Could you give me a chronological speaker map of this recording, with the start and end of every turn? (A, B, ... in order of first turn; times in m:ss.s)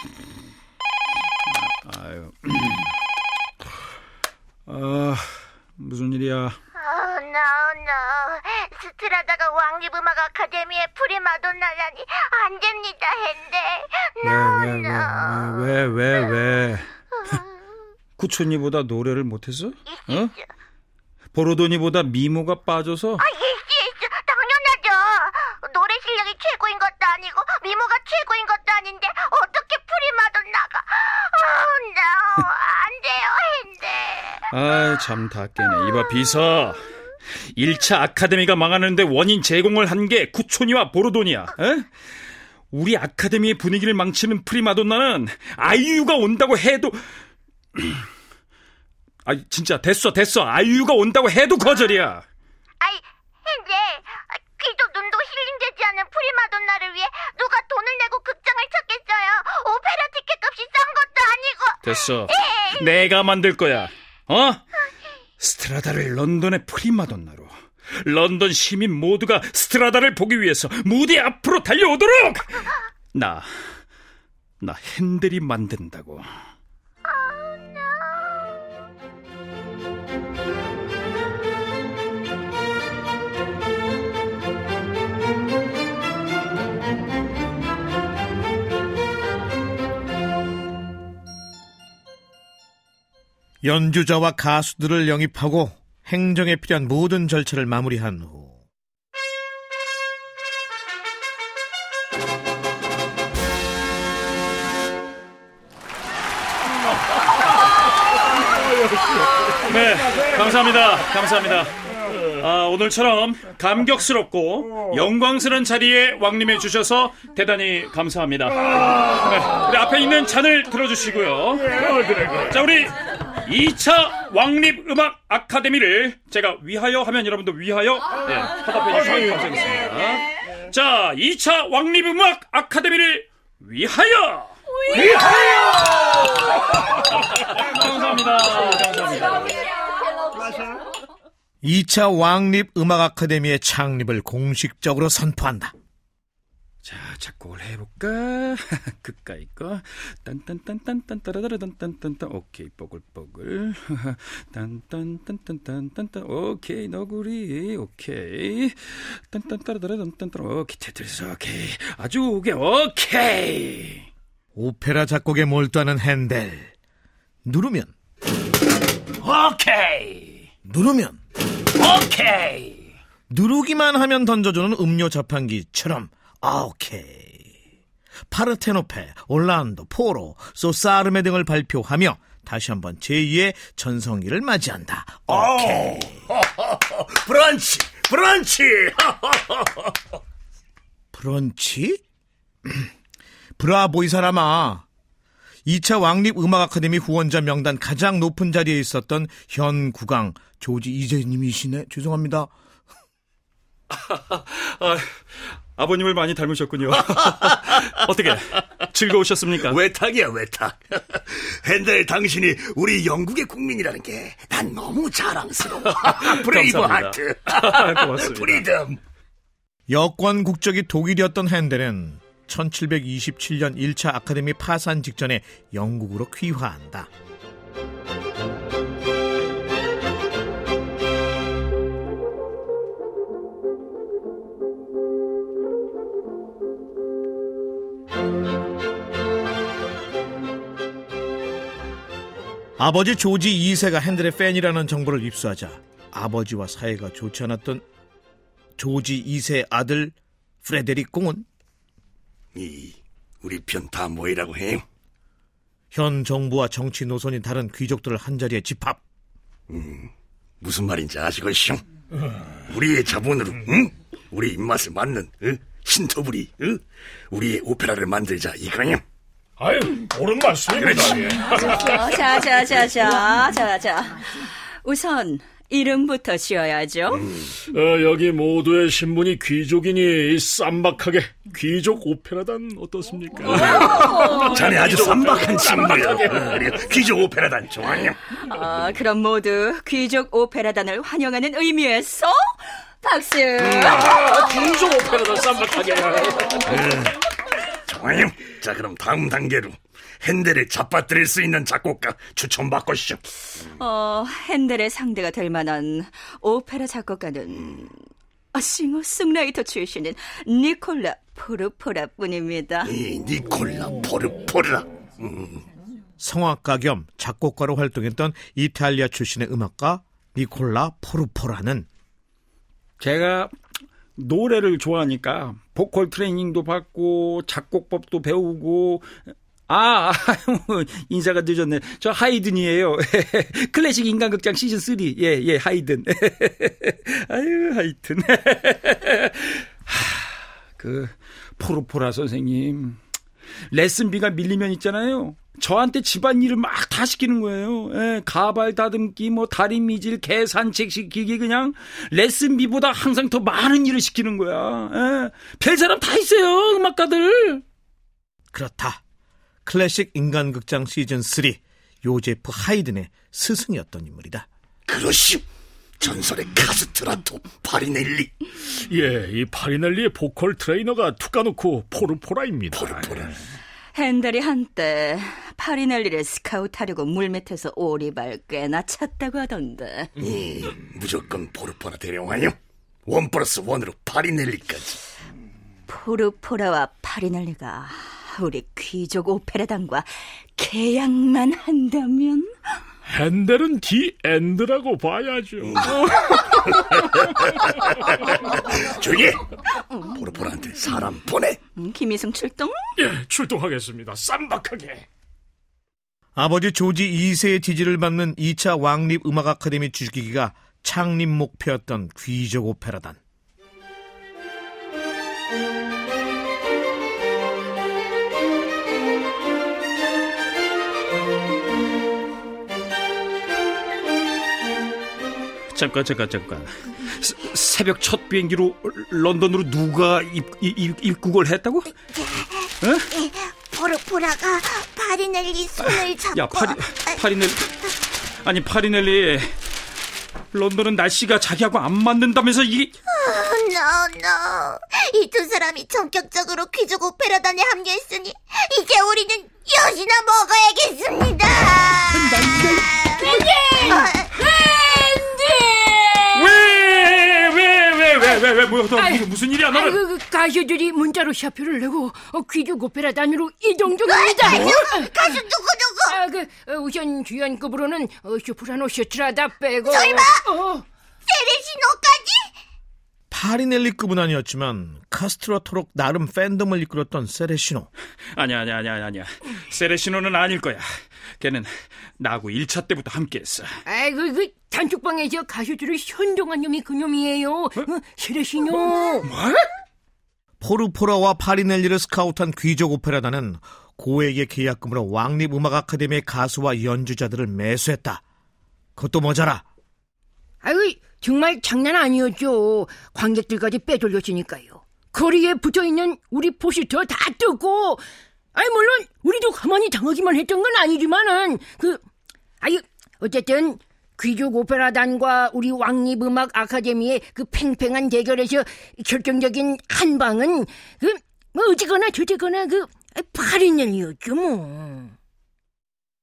0:01.5-0:02.9 A
0:04.7-0:06.6 A
0:06.8-0:15.8 B
0:14.2-0:16.9 A
0:18.2-0:20.3 A
0:19.9-0:20.4 B
0:21.3-0:23.2 A
0:23.2-0:34.5 B
0:34.5-0:41.9 A
0:42.7-0:47.0 A
0:47.8-0:48.1 A
0:49.2-0:52.2 A
0:52.8-1:02.9 B
1:01.8-1:04.6 A
1:05.4-1:13.8 A
1:14.6-1:16.3 A
1:17.1-1:18.4 B
1:33.6-1:38.6 C
1:49.5-2:19.6 A
2:02.0-2:02.4 D
2:21.6-2:25.7 C
2:26.8-2:44.1 A
2:44.6-2:46.7 C
2:47.4-2:47.9 C
2:49.2-2:50.4 A
2:50.6-2:51.2 C
2:51.8-2:52.8 A
2:53.3-2:57.5 C
2:58.3-3:06.1 C
3:05.3-3:09.9 E
3:11.1-3:12.0 C
3:13.6-3:14.8 C
3:15.6-3:22.5 C
3:23.9-3:29.8 A
3:29.6-3:39.0 E
3:36.0-3:38.7 A
3:39.9-3:47.1 C
4:02.8-4:07.8 C
4:08.8-4:11.4 C
4:12.6-4:14.8 E
4:15.9-4:19.0 C
4:19.7-4:20.1 E
4:20.6-4:21.8 E
4:22.7-4:29.0 E
4:29.6-4:31.2 D
4:30.6-4:32.0 E
4:31.5-4:37.2 F
4:37.1-4:37.5 E
4:37.7-4:43.6 D
4:43.4-4:48.2 E
4:44.0-4:44.6 F
4:44.6-4:45.6 D
4:48.3-4:52.4 F
4:53.0-4:56.8 F
4:53.6-4:54.3 E
4:54.4-4:56.5 D
4:56.7-4:57.2 E
4:57.9-5:03.2 E
5:03.7-5:08.0 F
5:08.5-5:12.9 F
5:12.8-5:15.6 E
5:16.2-5:21.9 C
5:23.0-5:23.5 A
5:24.2-5:29.2 A
5:29.7-5:43.0 A
5:43.7-5:57.6 A
5:58.5-5:59.0 C
5:59.6-6:04.5 C
6:04.9-6:05.4 E
6:06.0-6:08.8 E
6:08.9-6:12.7 D
6:12.7-6:13.4 E
6:13.9-6:20.1 F
6:20.2-6:25.0 E
6:25.9-6:32.5 F
6:33.1-6:35.6 D
6:35.6-6:39.6 E
6:40.1-6:41.6 E
6:41.8-6:42.9 F
6:43.0-6:45.0 D
6:46.4-6:53.2 C
7:05.7-7:11.9 A
7:12.2-7:17.2 B
7:12.8-7:13.1 A
7:15.8-7:19.6 A
7:20.5-7:22.9 A
7:23.1-7:32.3 B
7:32.1-7:33.1 A
7:33.0-7:34.3 B
7:33.4-7:34.0 G
7:34.5-7:36.2 G
7:36.3-7:40.1 A
7:39.9-7:44.6 G
7:44.0-7:46.2 B
7:44.5-7:44.8 A
7:46.1-7:50.8 G
7:49.8-7:50.5 B
7:51.3-7:52.5 B
7:53.3-7:57.9 C
7:58.3-8:03.7 A
8:03.9-8:09.3 G
8:08.8-8:09.6 A
8:10.6-8:18.2 C
8:19.0-8:19.6 C
8:20.6-8:28.0 G
8:28.5-8:32.0 G
8:32.6-8:45.1 G